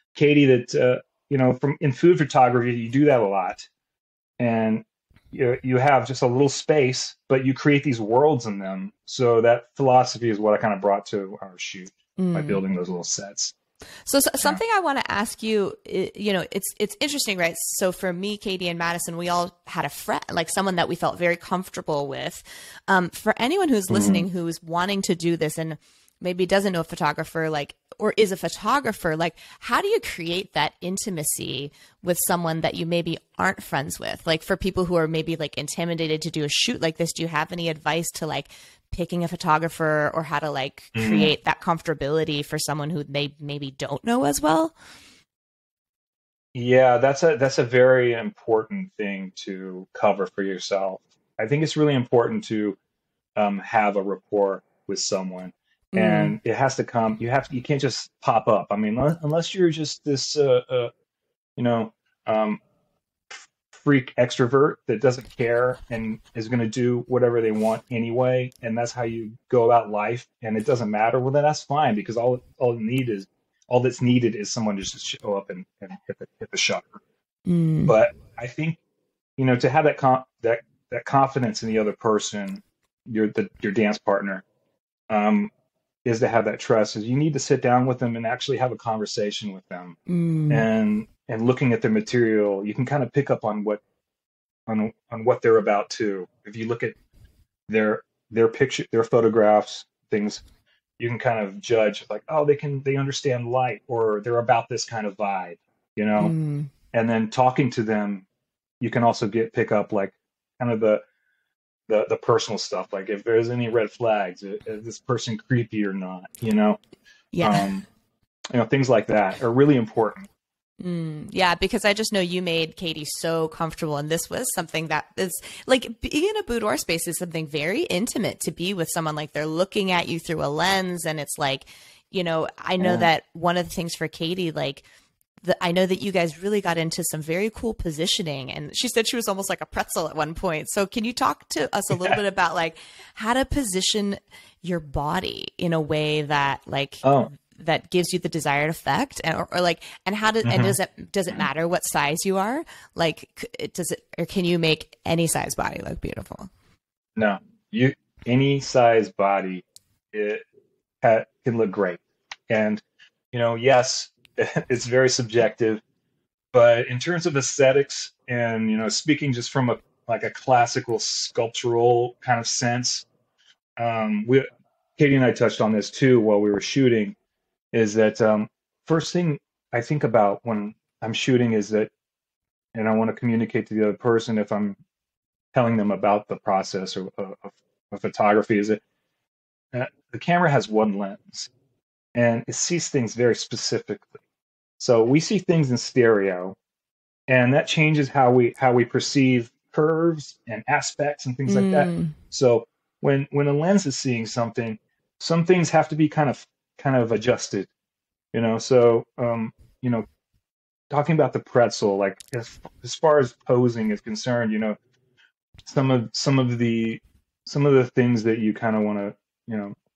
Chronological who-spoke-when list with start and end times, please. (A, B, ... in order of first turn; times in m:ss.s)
0:00.2-0:03.7 A
0:04.4-0:13.5 A
0:12.2-0:12.6 B
0:14.1-0:44.8 B
0:23.9-0:24.2 A
0:41.0-0:41.4 A
0:46.6-0:52.8 A
0:53.4-1:00.9 A
0:55.9-0:56.4 B
1:01.6-1:02.6 A
1:03.3-1:17.0 A
1:17.5-1:18.0 B
1:17.9-1:18.8 A
1:19.4-1:24.4 A
1:25.1-1:25.5 A
1:26.0-1:30.0 A
1:30.1-1:30.6 B
1:30.5-1:33.8 A
1:34.7-1:37.0 A
1:37.7-1:40.4 A
1:41.0-1:46.3 A
1:46.2-1:46.7 B
1:46.9-1:48.2 A
1:48.8-1:51.0 A
1:51.9-1:56.8 A
1:57.3-1:57.7 B
1:57.4-1:57.9 A
1:58.5-2:00.3 A
2:00.8-2:14.8 B
2:12.8-2:13.1 A
2:15.4-2:36.5 B
2:27.0-2:27.3 A
2:30.4-2:30.8 A
2:37.2-2:40.4 A
2:41.0-2:45.8 A
2:46.5-2:53.1 A
2:53.8-2:57.2 A
2:57.7-3:01.9 A
3:02.7-3:04.8 A
3:05.5-3:08.8 A
3:09.7-3:11.5 A
3:12.2-3:14.2 A
3:14.8-3:16.6 A
3:17.3-3:27.7 A
3:21.5-3:22.1 B
3:28.3-3:30.0 A
3:30.9-3:34.8 A
3:35.6-3:39.8 A